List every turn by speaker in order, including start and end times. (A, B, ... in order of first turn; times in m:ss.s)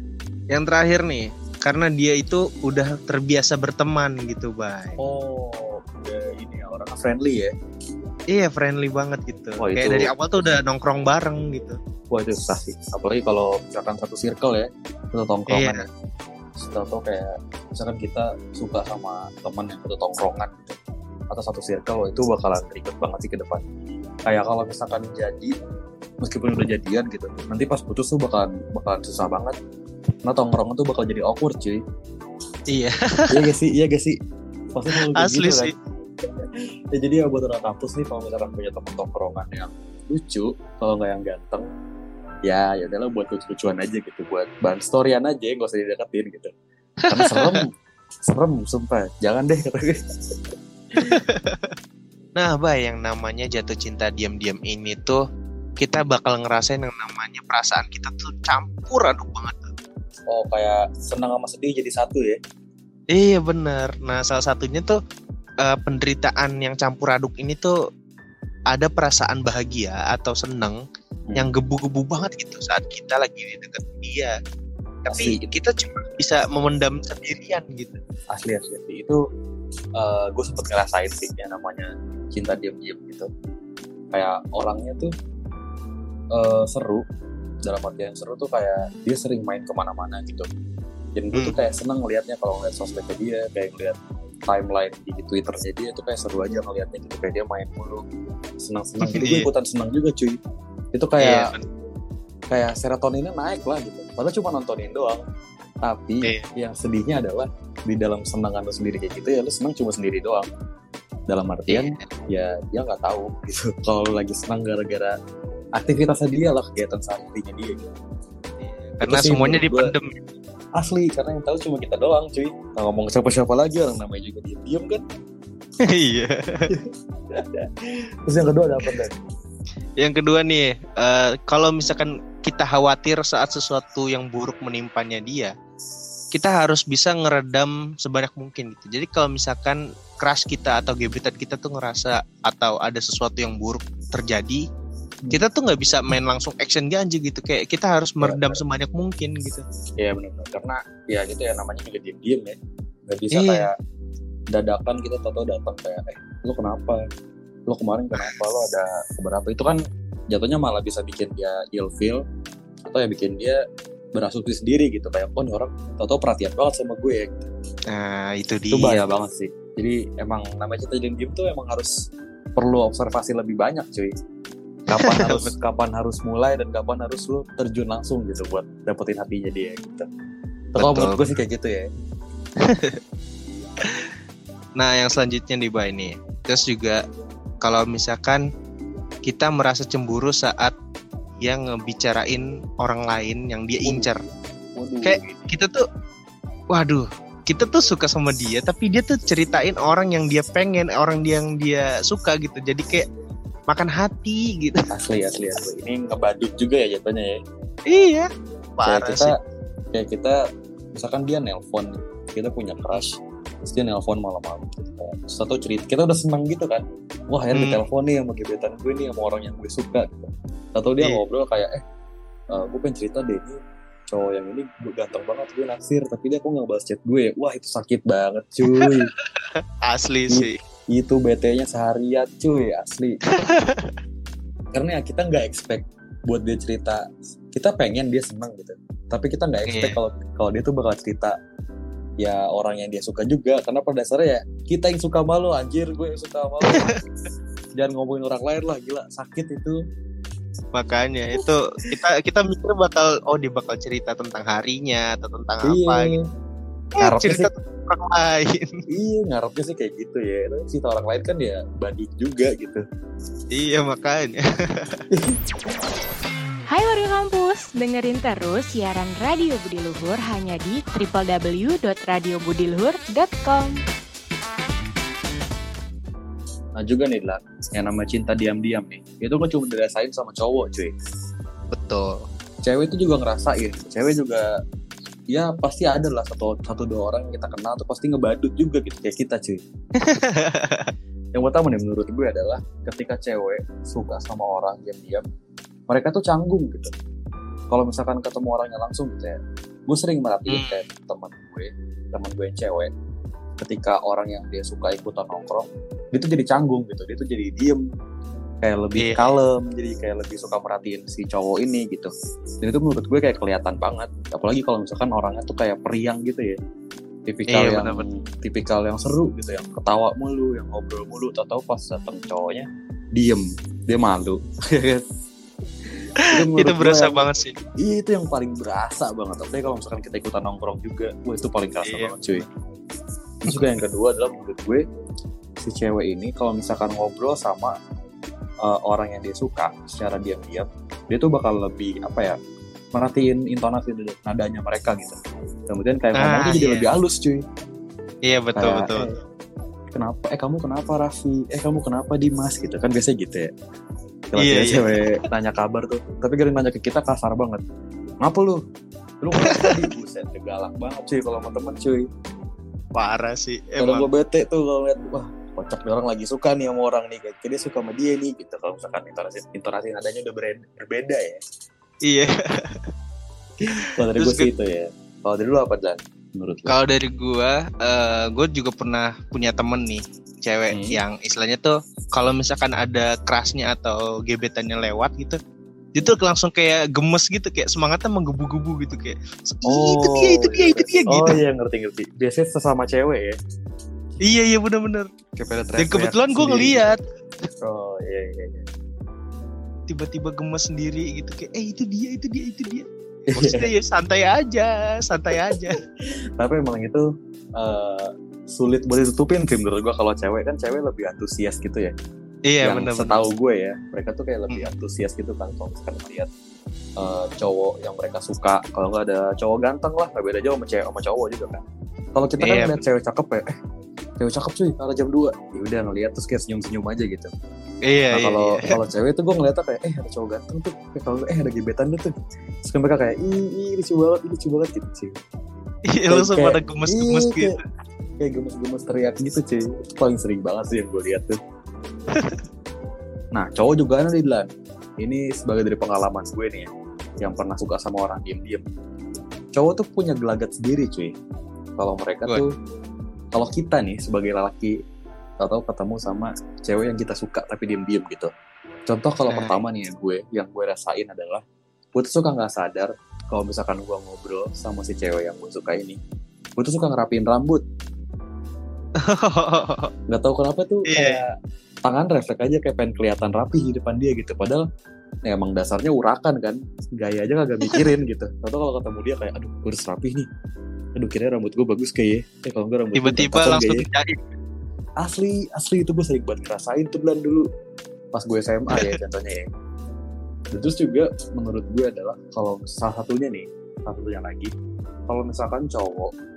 0:00.5-0:05.0 A
0:05.0-0:07.5 B
0:08.3-0:11.8 A
0:09.6-0:10.1 B
0:12.1-0:15.8 B
0:15.5-0:15.8 A
0:16.6-0:20.8 B
0:21.3-0:23.6 B
0:24.2-0:25.5 B
0:26.2-0:29.6 B
0:30.2-0:31.8 B
0:32.7-0:33.5 A
0:33.3-0:34.2 B
0:34.7-0:35.7 B
0:34.9-0:35.7 A
0:36.9-0:41.7 B
0:42.4-0:46.5 B
0:47.0-0:47.6 A
0:47.1-0:47.7 B
0:48.2-0:50.0 B
0:50.9-0:51.8 A
0:52.4-0:55.2 A
0:55.8-0:59.7 A
1:00.3-1:02.4 B
1:03.1-1:05.0 A
1:05.6-1:07.8 A
1:08.7-1:10.8 A
1:11.3-1:14.4 A
1:15.0-1:18.0 A
1:15.1-1:15.5 B
1:18.3-1:19.2 B
1:20.0-1:23.3 B
1:24.1-1:25.1 B
1:26.3-1:27.0 B
1:27.6-1:30.5 B
1:31.2-1:34.0 B
1:31.3-1:31.7 A
1:34.5-1:38.0 B
1:38.6-1:40.4 B
1:39.0-1:39.5 A
1:40.9-1:41.5 B
1:41.2-1:41.7 A
1:42.5-1:45.2 B
1:45.8-1:50.5 B
1:46.2-1:46.5 A
1:51.3-1:55.1 B
1:51.7-1:52.0 A
1:55.8-1:57.9 B
1:58.6-2:00.3 A
1:59.0-1:59.9 B
2:00.7-2:05.0 B
2:05.8-2:06.7 A
2:08.3-2:09.2 B
2:10.0-2:15.5 A
2:16.3-2:24.6 A
2:25.3-2:29.6 A
2:28.2-2:28.6 B
2:30.0-2:32.5 B
2:33.1-2:33.7 B
2:33.3-2:33.7 A
2:34.5-2:37.0 B
2:37.7-2:39.8 B
2:40.3-2:42.2 B
2:42.8-2:43.6 B
2:44.1-2:47.5 B
2:47.9-2:49.0 A
2:48.7-2:51.9 B
2:52.6-2:54.1 B
2:54.9-3:00.0 B
2:54.9-2:55.5 A
3:00.7-3:01.9 B
3:00.8-3:01.4 A
3:02.6-3:03.0 A
3:03.8-3:04.1 A
3:04.8-3:07.0 A
3:07.6-3:08.4 A
3:09.2-3:10.8 A
3:11.4-3:14.2 A
3:13.8-3:14.1 B
3:14.8-3:15.5 B
3:15.0-3:15.8 A
3:16.7-3:23.1 A
3:23.7-3:24.8 A
3:24.9-3:27.4 B
3:27.8-3:29.3 A
3:28.8-3:29.3 B
3:29.9-3:30.4 B
3:30.9-3:41.8 B
3:32.8-3:33.1 A
3:37.5-3:37.8 A
3:42.5-3:43.6 B
3:44.1-3:49.1 B
3:48.7-3:50.6 A
3:50.3-3:53.2 B
3:53.3-3:54.0 A
3:54.7-4:01.3 B
3:59.6-4:00.0 A
4:02.2-4:06.8 B
4:06.7-4:07.0 A
4:07.8-4:09.8 B
4:10.7-4:16.1 A
4:15.6-4:16.2 B
4:17.0-4:18.8 A
4:17.0-4:17.5 B
4:18.9-4:22.8 B
4:23.5-4:25.0 A
4:25.1-4:25.4 B
4:26.7-4:33.8 C
4:36.8-4:40.9 B
4:41.7-4:42.2 A
4:42.6-4:44.4 B
4:45.3-4:49.6 B
4:49.9-4:50.9 A
4:51.3-4:55.2 B
4:55.9-4:56.9 B
4:57.7-5:02.9 B
5:00.5-5:00.9 A
5:03.6-5:07.8 B
5:08.6-5:12.1 B
5:09.0-5:09.4 A
5:12.6-5:16.6 B
5:17.3-5:25.0 B
5:17.5-5:18.0 A
5:26.2-5:27.2 B
5:26.2-5:27.6 A
5:27.8-5:32.4 B
5:31.8-5:32.4 A
5:33.4-5:34.8 B
5:35.6-5:37.7 B
5:38.6-5:42.3 B
5:42.9-5:45.2 B
5:45.7-5:47.4 B
5:46.1-5:46.9 A
5:48.2-5:49.2 A
5:48.5-5:49.2 B
5:49.9-5:53.5 B
5:54.3-5:57.6 B
5:54.4-5:55.2 A
5:58.2-5:58.6 B
5:59.2-6:02.0 B
5:59.4-5:59.9 A
6:02.9-6:04.1 A
6:03.8-6:11.4 B
6:12.0-6:12.9 A
6:13.7-6:14.5 A
6:13.8-6:16.8 B
6:16.6-6:25.4 A
6:20.7-6:21.0 B
6:25.9-6:31.4 A
6:29.6-6:33.4 B
6:34.2-6:35.1 A
6:35.4-6:36.9 B
6:35.8-6:37.0 A
6:37.6-6:38.6 B
6:39.8-6:45.8 A
6:43.3-6:43.7 B
6:45.2-6:45.7 B
6:46.4-6:47.0 B
6:47.6-6:51.9 B
6:52.4-6:53.3 A
6:52.6-6:56.3 B
6:57.0-7:01.6 B
7:02.1-7:03.5 B
7:02.4-7:02.8 A
7:04.2-7:07.3 B
7:07.8-7:08.7 A
7:08.1-7:12.1 B
7:12.6-7:15.2 B
7:15.8-7:17.6 A
7:16.1-7:17.5 B
7:18.2-7:21.4 B
7:22.1-7:22.4 A
7:23.3-7:24.5 B
7:25.0-7:26.7 B
7:27.2-7:28.6 B
7:29.5-7:31.1 B
7:31.8-7:32.5 B
7:33.3-7:34.7 B
7:35.4-7:38.3 B
7:38.9-7:41.4 B
7:39.3-7:39.6 A
7:41.9-7:46.0 B
7:46.6-7:47.6 B
7:49.0-7:49.9 A
7:50.1-7:51.3 B
7:50.8-7:51.2 A
7:51.8-7:54.6 B
7:55.2-8:00.3 B
8:01.0-8:03.8 B
8:02.9-8:04.3 A
8:05.0-8:07.4 B
8:08.1-8:09.4 B
8:08.7-8:09.0 A
8:10.5-8:14.5 B
8:15.1-8:16.1 B